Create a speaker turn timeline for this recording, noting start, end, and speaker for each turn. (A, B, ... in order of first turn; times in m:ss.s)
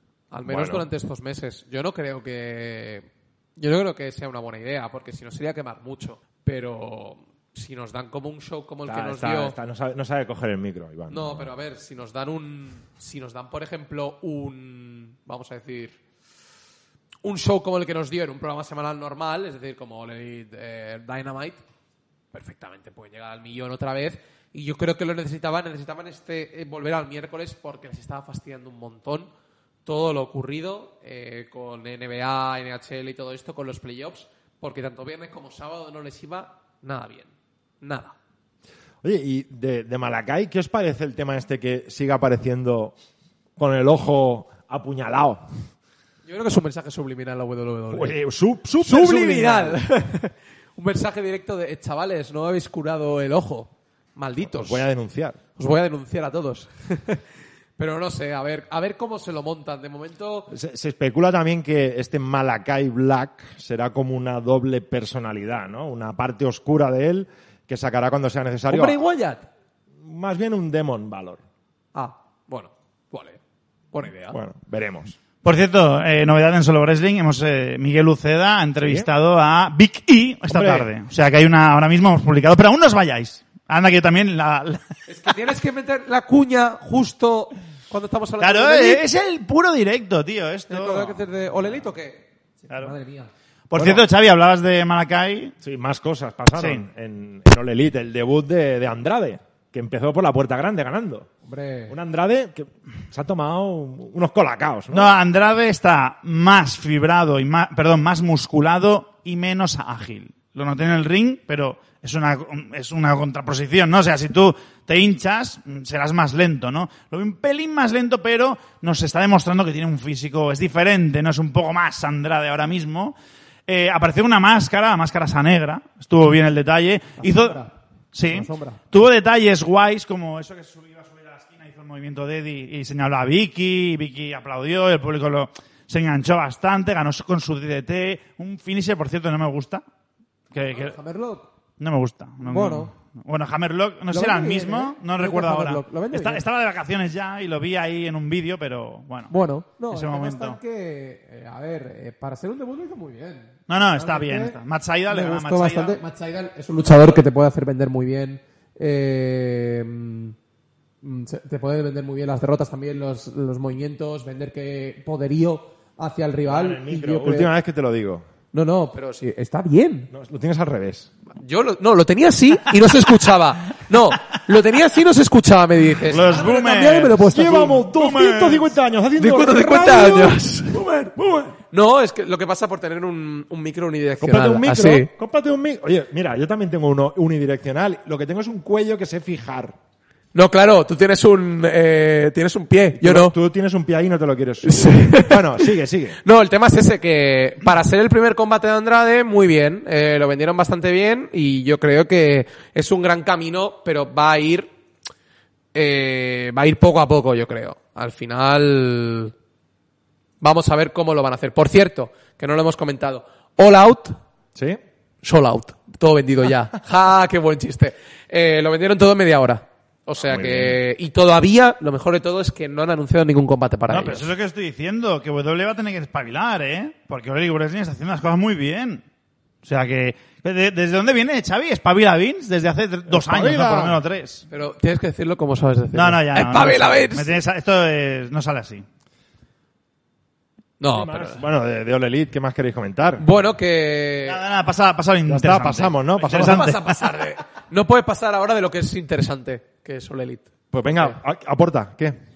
0:00.3-0:09.6 A
0:00.4-0:00.8 B
0:08.9-0:11.5 B
0:11.1-0:16.0 A
0:17.2-0:21.6 A
0:22.3-0:29.3 A
0:29.8-0:38.1 A
0:39.0-0:42.9 B
0:43.6-0:45.4 B
0:46.2-0:48.2 A
0:47.9-0:49.8 B
0:48.8-0:54.9 A
0:54.4-0:55.4 B
0:55.6-0:57.2 A
0:57.8-1:00.5 A
1:00.5-1:09.0 B
1:08.7-1:09.5 A
1:10.0-1:11.4 B
1:11.9-1:13.4 A
1:13.9-1:14.4 A
1:14.3-1:15.2 B
1:15.4-1:24.9 C
1:18.8-1:19.1 B
1:20.5-1:20.9 B
1:25.1-1:29.0 A
1:28.4-1:31.2 C
1:30.7-1:33.3 A
1:32.7-1:33.0 C
1:33.7-1:35.5 C
1:33.7-1:34.0 B
1:35.6-1:41.3 B
1:36.5-1:36.8 C
1:41.4-1:41.9 A
1:41.9-1:45.1 B
1:44.9-2:03.1 C
2:03.7-2:19.8 C
2:07.2-2:07.7 A
2:08.3-2:08.8 A
2:20.5-2:21.0 C
2:20.7-2:21.5 A
2:21.8-2:29.3 C
2:22.4-2:22.9 A
2:24.1-2:26.4 A
2:29.3-2:34.6 A
2:29.9-2:30.6 C
2:33.7-2:36.0 C
2:35.1-2:40.4 A
2:41.0-2:47.5 A
2:46.4-2:48.2 B
2:48.5-2:50.1 A
2:50.1-2:51.1 B
2:51.4-2:57.9 A
2:56.1-2:57.2 C
2:57.2-3:00.5 B
2:57.9-2:58.7 C
2:59.2-3:05.1 A
3:01.2-3:01.5 B
3:04.2-3:09.8 B
3:10.3-3:13.3 A
3:13.0-3:16.2 B
3:14.6-3:24.7 A
3:25.7-3:29.3 A
3:30.4-3:34.2 A
3:35.2-3:44.3 A
3:40.2-3:40.8 B
3:43.9-3:49.0 C
3:49.6-3:54.4 C
3:53.1-3:54.0 B
3:54.5-3:57.3 A
3:55.9-3:58.8 C
4:00.8-4:01.4 A
4:00.9-4:03.2 B
4:03.2-4:04.4 A
4:04.2-4:07.0 C
4:05.3-4:06.7 B
4:06.3-4:11.2 A
4:10.7-4:12.2 B